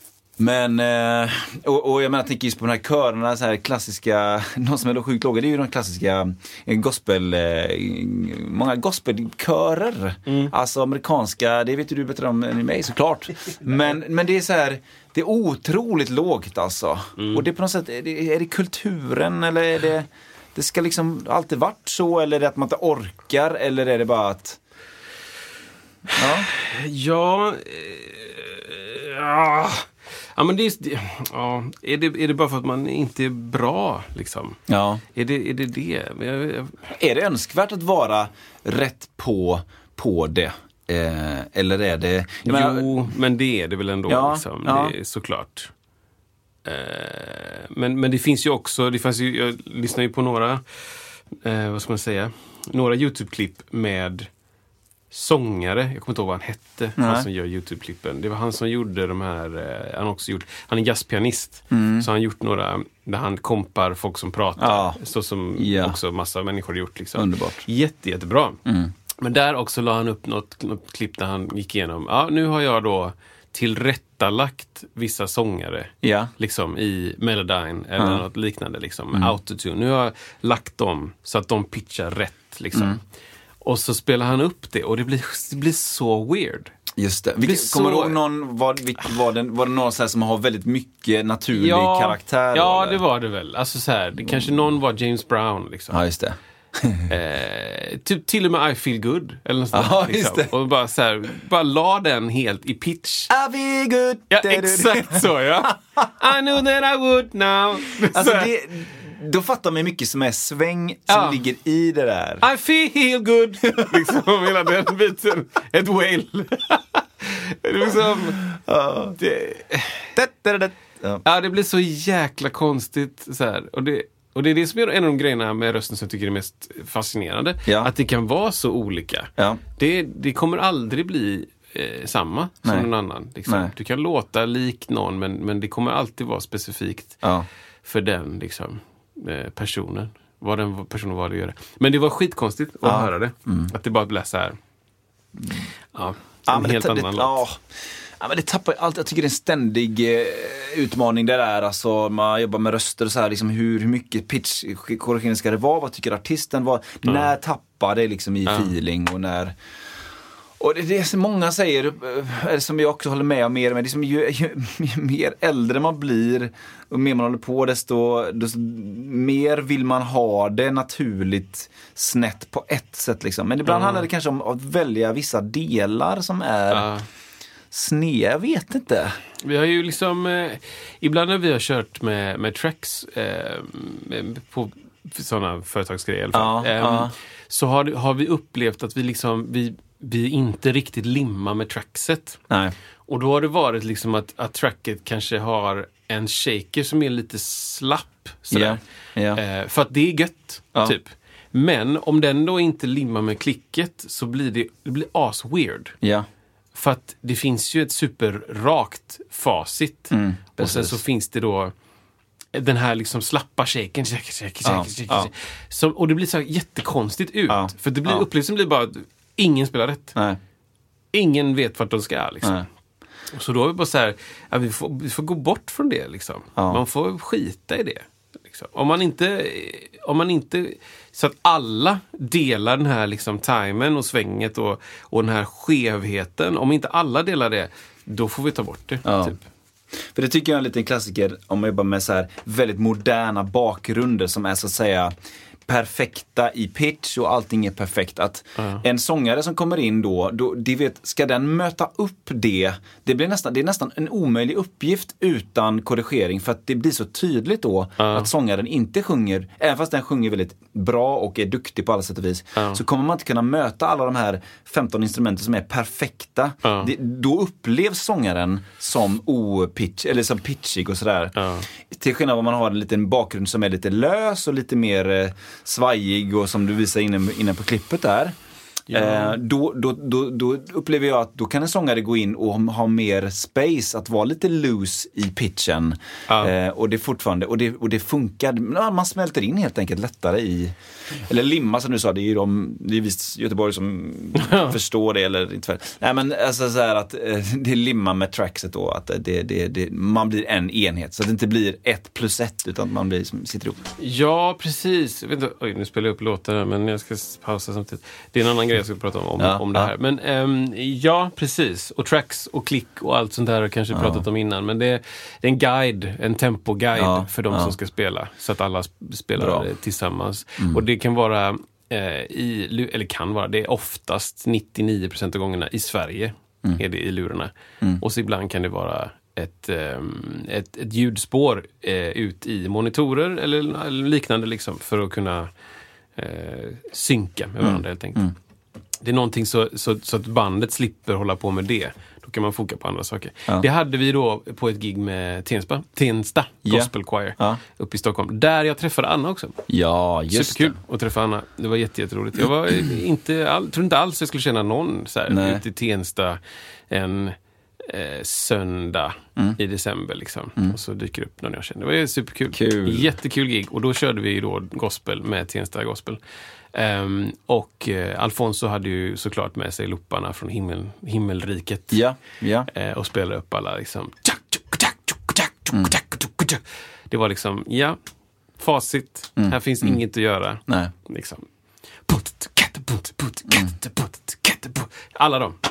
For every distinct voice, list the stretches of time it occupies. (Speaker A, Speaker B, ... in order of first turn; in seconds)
Speaker A: 0.4-24.6, 26.1-26.5, 34.7-35.0, 36.9-42.9, 44.1-45.0, 57.0-57.3, 61.7-62.1, 64.6-65.0, 65.6-66.0, 67.2-67.6, 68.7-68.9, 76.0-76.3, 78.0-78.2, 82.7-83.0, 87.0-93.0, 95.9-97.1, 99.7-100.5, 103.3-105.4, 108.1-112.5, 118.5-119.2, 120.2-121.2, 127.7-127.9, 133.5-133.7, 142.8-143.7, 145.4-145.6, 146.5-147.6, 148.2-159.6, 160.6-176.9, 177.7-179.2, 186.3-187.1, 192.5-192.8, 198.5-199.4, 210.1-211.0, 214.6-215.3, 217.5-218.3, 226.6-226.8, 239.1-239.4, 240.0-245.1, 245.7-271.4, 271.9-278.4, 278.9-303.8, 309.4-309.9, 313.9-314.2, 316.9-317.8, 319.4-319.7, 337.6-338.3, 346.7-347.6, 349.7-350.8, 355.3-355.6, 362.5-363.1, 371.9-372.7, 379.4-380.0
Speaker B: 10.3-10.5, 17.2-17.4, 26.2-34.6, 35.1-36.8, 42.5-45.7, 46.6-50.6, 51.4-54.3, 55.1-68.6, 69.2-83.0, 83.6-86.7, 87.4-88.2, 91.5-96.0, 97.1-103.3, 104.3-108.5, 111.1-111.4, 112.4-118.4, 119.2-120.1, 121.2-137.2, 137.8-144.6, 145.9-147.4, 158.5-158.7, 173.7-174.1, 176.7-177.1, 179.4-192.4, 193.1-198.8, 199.3-205.9, 206.8-211.7, 212.5-220.2, 221.1-222.7, 223.3-239.4, 258.0-258.3, 266.6-266.9, 271.4-271.7, 278.9-279.4, 294.4-294.8, 304.0-335.5, 336.2-338.3, 339.0-349.6, 350.3-366.2, 366.7-372.0, 372.7-378.0, 378.6-381.5, 382.1-385.6